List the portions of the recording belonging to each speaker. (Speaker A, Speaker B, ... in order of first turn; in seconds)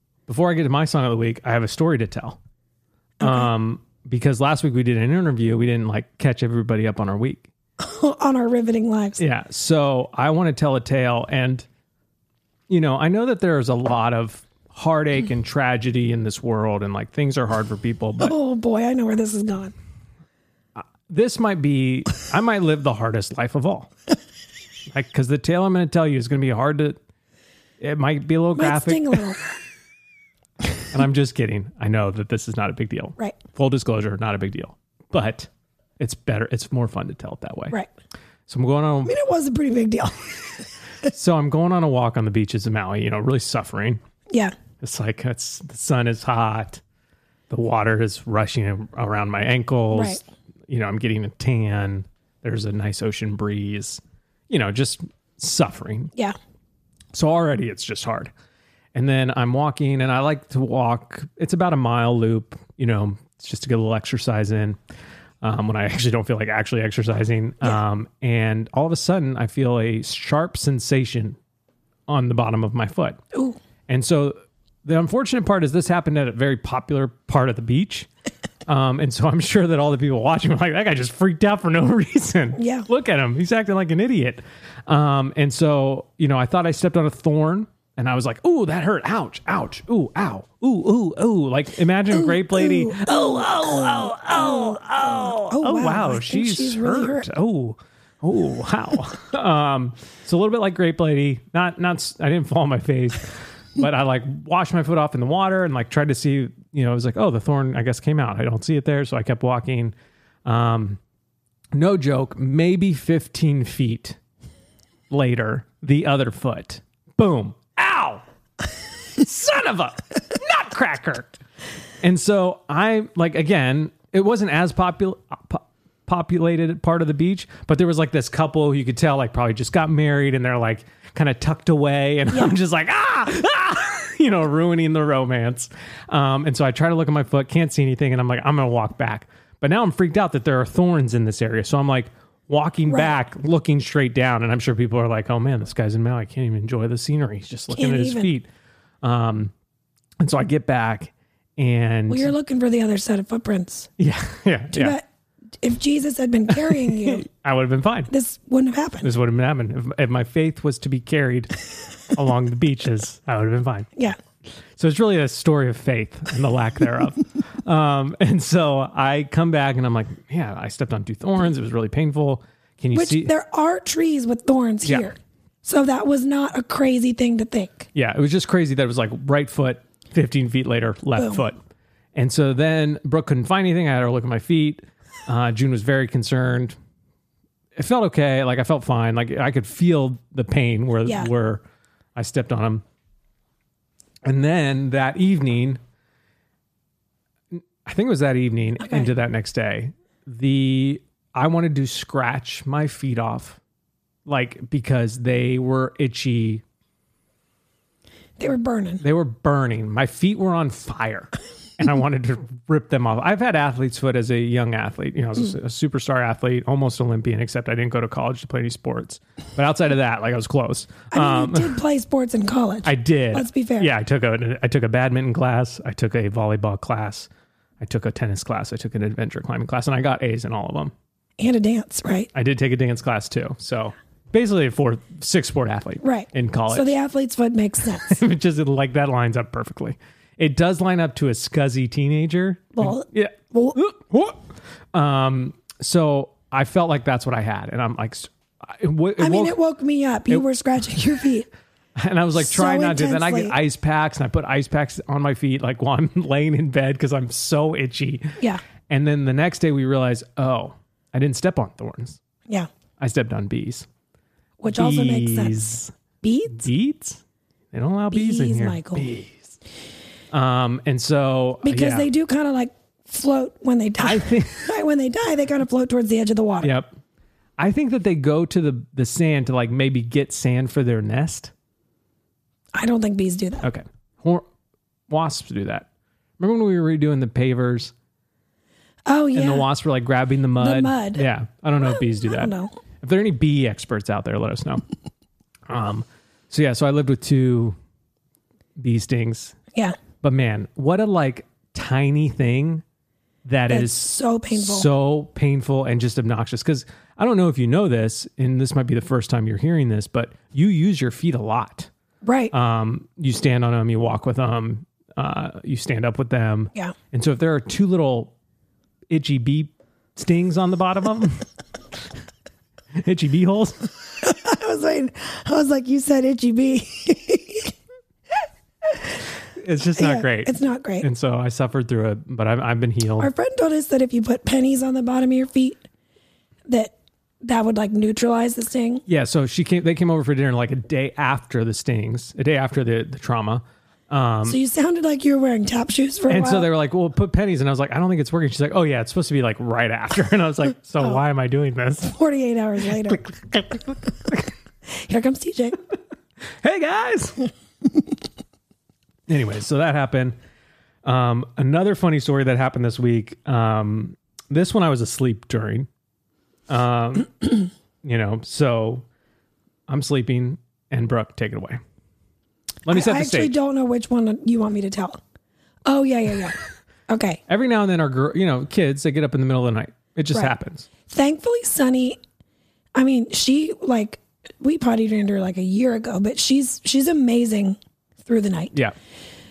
Speaker A: 0.3-2.4, 3.2-7.5, 9.2-11.7, 12.7-18.3, 20.8-23.9, 24.9-27.0, 27.8-29.2, 30.9-37.8, 38.5-39.2, 41.0-44.0, 44.8-46.8, 47.5-56.1, 57.1-58.3, 59.0-64.8, 65.4-71.4, 72.1-73.2, 73.9-78.1, 78.7-111.0, 111.7-114.2, 115.1-118.2, 119.2-121.3, 122.0-148.5, 149.0-149.5, 150.2-152.3, 154.0-155.0, 156.6-158.1, 159.0-163.9, 164.6-173.3, 174.8-175.1, 177.9-181.6, 182.2-186.8, 187.8-191.6, 192.2-192.8, 194.2-195.8, 197.5-203.6, 204.3-206.6, 209.0-221.8, 222.8-227.3, 227.8-230.9, 232.3-236.9, 238.0-249.6, 252.0-262.2, 263.0-263.9, 264.7-265.9, 266.5-269.6, 270.3-272.1, 274.0-274.7, 276.6-277.0, 277.6-281.5, 283.6-284.5, 285.1-285.9, 286.4-287.9, 289.3-294.8, 295.7-297.8, 298.8-299.6, 300.2-302.8, 303.4-311.9, 312.5-318.3, 319.1-321.4, 323.0-323.9, 329.6-333.3, 339.1-344.6, 346.3-352.2, 353.0-354.5, 356.5-357.5, 359.3-360.4, 361.1-365.9, 366.7-369.1, 369.9-371.8, 372.9-373.5, 377.5-380.9
Speaker B: 3.2-3.5, 7.8-9.2, 18.2-19.8, 28.6-29.4, 39.0-40.7, 44.3-44.6, 49.9-50.2, 73.3-73.6, 82.6-82.9, 92.1-94.8, 95.5-97.3, 147.7-148.3, 152.1-153.9, 154.7-155.1, 155.6-157.2, 158.1-159.1, 172.9-177.9, 181.2-181.4, 198.8-199.1, 208.4-209.0, 221.1-223.9, 231.4-232.3, 236.0-238.2, 242.8-243.8, 249.2-251.5, 252.4-253.6, 264.6-265.6, 266.2-266.7, 268.1-269.1, 271.6-276.7, 282.7-283.7, 289.1-289.7, 290.6-291.2, 292.2-292.7, 303.7-304.9, 312.2-312.5, 324.2-327.7, 330.0-331.1, 333.2-335.8, 336.7-339.0, 344.5-346.7, 352.0-353.2, 354.9-355.8, 372.9-375.2, 375.9-376.6, 377.1-377.4, 381.1-382.2, 382.9-388.7